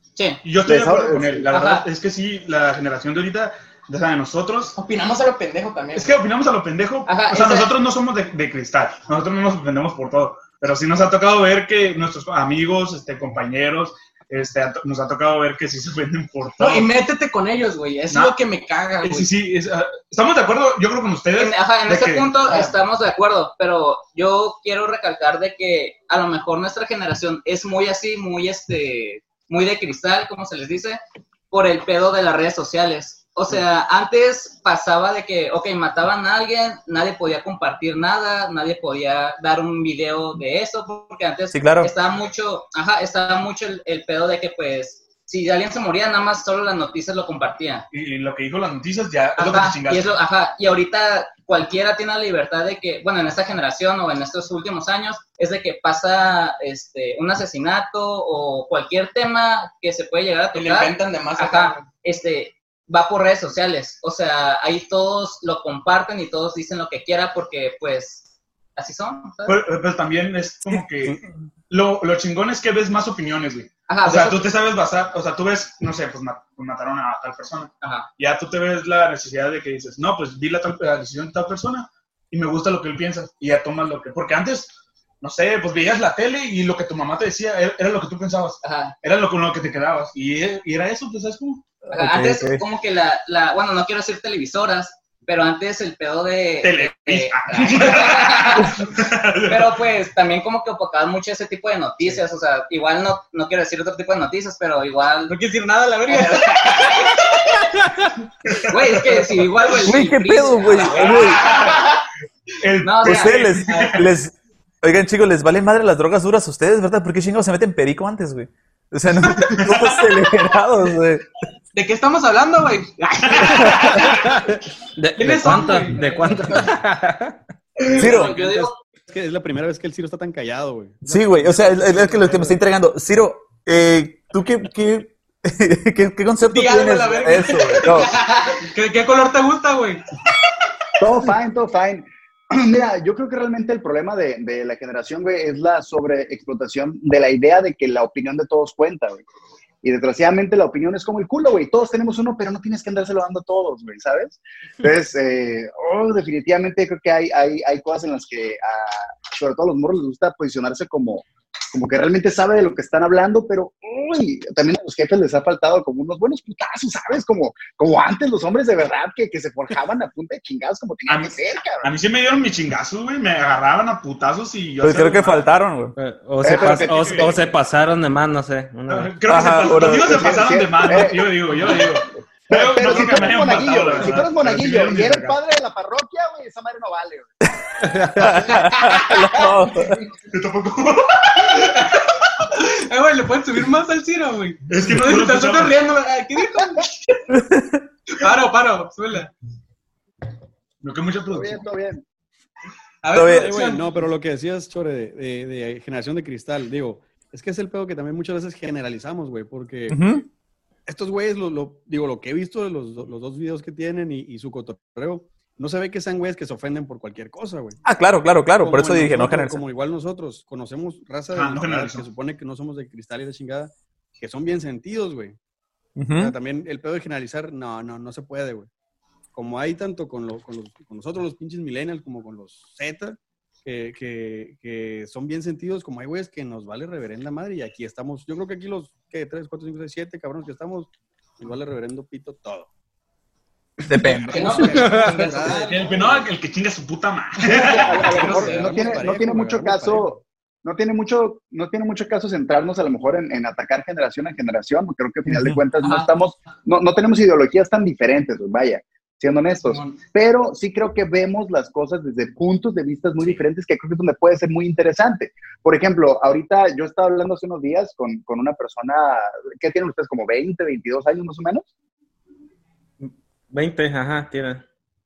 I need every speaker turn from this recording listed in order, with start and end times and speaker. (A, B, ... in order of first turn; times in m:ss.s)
0:00.4-0:04.8 A
0:00.6-0:01.5 B
0:01.5-0:01.8 C
0:04.8-0:06.2 D
0:05.9-0:16.9 A
0:07.1-0:07.7 C
0:16.6-0:19.3 D
0:18.1-0:18.4 A
0:19.0-0:22.7 A
0:21.4-0:47.8 C
0:41.5-0:41.9 E
0:47.9-0:50.1 A
0:49.4-1:09.6 C
1:00.5-1:01.8 D
1:09.4-1:31.6 A
1:13.9-1:14.5 C
1:17.8-1:18.1 C
1:28.6-1:28.9 C
1:31.9-1:38.8 C
1:32.0-1:32.5 E
1:36.6-1:39.8 A
1:39.5-1:45.3 C
1:45.3-1:47.6 D
1:46.1-1:47.2 C
1:48.4-1:49.8 A
1:48.7-1:51.9 C
1:49.8-1:51.5 E
1:50.8-1:51.9 A
1:52.6-1:54.1 A
1:52.8-1:53.3 C
1:53.0-2:01.2 E
1:59.3-2:00.0 A
2:01.7-2:03.7 D
2:03.2-2:04.1 A
2:03.6-2:04.3 F
2:05.0-2:07.4 F
2:05.2-2:06.7 D
2:07.8-2:08.8 C
2:08.0-2:12.6 G
2:08.0-2:08.4 E
2:11.1-2:18.2 E
2:16.4-2:20.0 D
2:18.1-2:18.6 C
2:21.0-2:29.2 B
2:29.8-2:51.9 B
2:51.1-2:55.5 A
2:54.8-2:55.9 E
2:56.0-2:59.6 F
2:56.4-2:57.4 B
2:56.5-2:57.4 A
2:58.9-3:05.4 A
2:59.3-3:00.2 E
2:59.7-3:01.6 B
3:02.5-3:07.3 B
3:08.0-3:10.1 E
3:10.2-3:12.0 A
3:12.4-3:17.2 D
3:14.7-3:15.8 A
3:17.3-3:17.8 E
3:18.1-3:19.3 D
3:20.8-3:21.6 A
3:21.3-3:22.0 B
3:23.0-3:23.9 D
3:23.1-3:23.6 E
3:23.4-3:30.0 G
3:29.9-3:30.2 E
3:30.9-3:37.8 G
3:37.8-3:39.6 E
3:38.6-3:45.4 G
3:41.3-3:42.0 A
3:46.0-3:46.3 E
3:46.1-3:48.7 G
3:49.3-4:02.7 G
4:03.8-4:06.2 G
4:03.9-4:04.8 E
4:04.3-4:06.2 D
4:04.6-4:05.5 F
4:05.6-4:08.2 A
4:07.4-4:31.7 B
4:08.0-4:09.0 D
4:08.0-4:10.2 G
4:15.3-4:15.6 E
4:15.8-4:16.1 C
4:33.0-4:34.6 F